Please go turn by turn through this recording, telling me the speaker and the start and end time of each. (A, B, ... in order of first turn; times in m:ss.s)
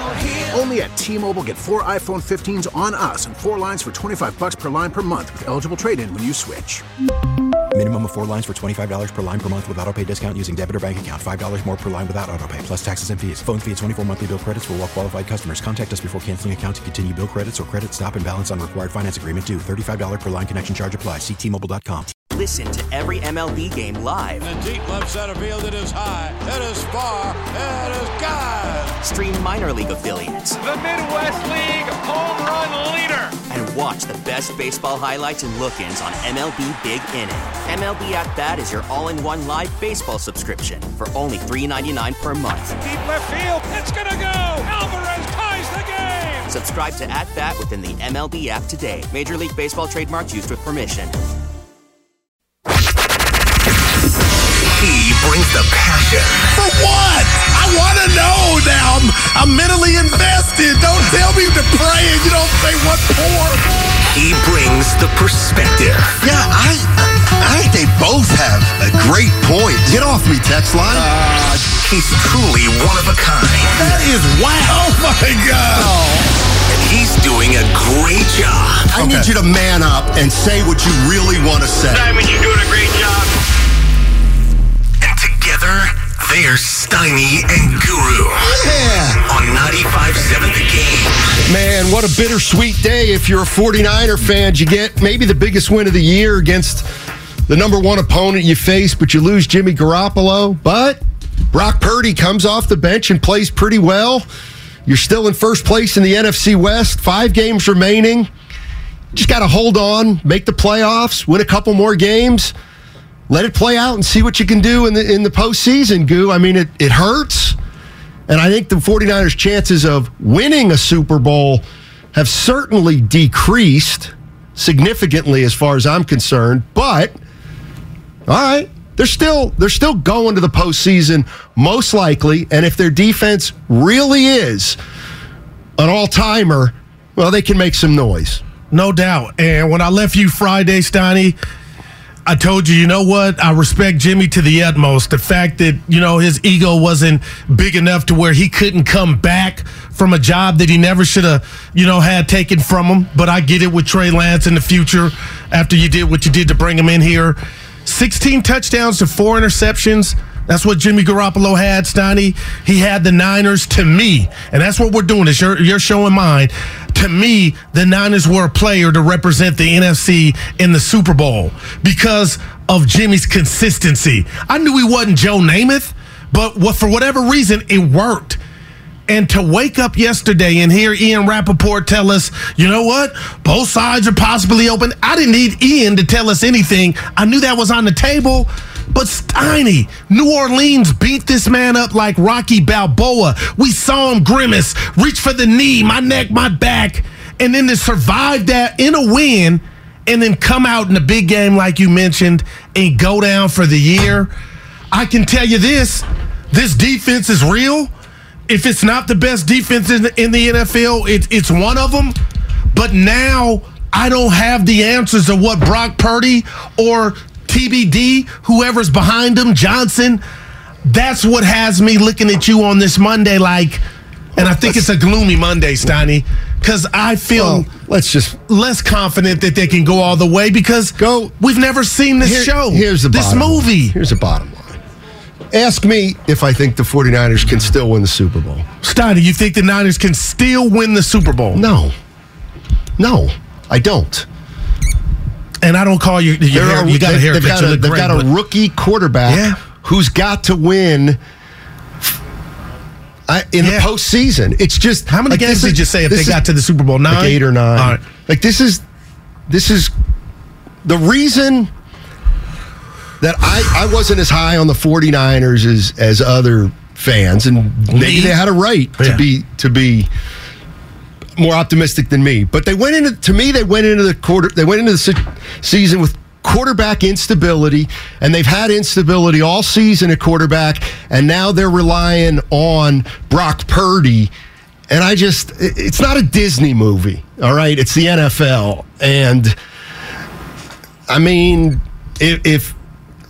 0:00.5-0:06.8 A
0:07.7-0:22.1 B
0:22.3-0:24.4 C
0:24.4-0:29.0 D
0:29.0-0:30.6 C
0:30.6-0:33.4 E
0:33.5-0:42.8 C
0:42.8-0:46.5 E
0:46.5-0:51.2 C
0:54.7-0:56.5 F
0:56.5-1:03.6 G
1:04.1-1:06.5 F
1:06.2-1:11.1 H
1:10.9-1:13.9 F
1:13.8-1:15.9 G
1:13.8-1:14.0 H
1:16.7-1:18.9 F
1:18.9-1:22.2 H
1:19.0-1:19.3 G
1:22.3-1:22.7 F
1:22.7-1:23.2 E
1:25.0-1:28.6 F
1:28.4-1:29.2 H
1:29.2-1:31.3 F
1:31.5-1:36.9 H
1:37.5-1:44.3 H
1:44.9-1:48.3 H
1:49.1-1:52.5 H
1:53.3-1:57.6 H
1:58.3-2:07.2 H
2:08.3-2:14.8 H
2:15.8-2:18.4 H
2:18.7-2:21.4 G
2:22.3-2:58.4 G
2:59.1-3:24.3 G
3:24.9-3:27.9 G
3:28.5-3:32.2 G
3:32.7-3:40.2 G
3:40.8-3:43.8 G
3:44.4-3:47.7 G
3:44.4-3:44.8 H
3:47.3-3:48.4 H
3:48.5-3:54.0 G
3:51.0-3:51.3 H
3:52.2-3:54.8 H
3:55.5-3:58.7 H
3:58.8-4:01.6 G
4:01.5-4:01.9 H
4:03.0-4:04.3 H
4:05.6-4:08.3 G
4:06.5-4:11.2 H
4:09.3-4:09.6 G
4:13.3-4:16.4 H
4:13.6-4:13.9 G
4:15.1-4:18.0 G
4:17.1-4:18.8 H
4:19.5-4:19.9 H
4:20.8-4:21.7 H
4:23.2-4:30.1 H
4:27.9-4:28.4 G
4:31.4-4:44.3 H
4:44.9-4:49.6 H
4:51.1-4:52.8 H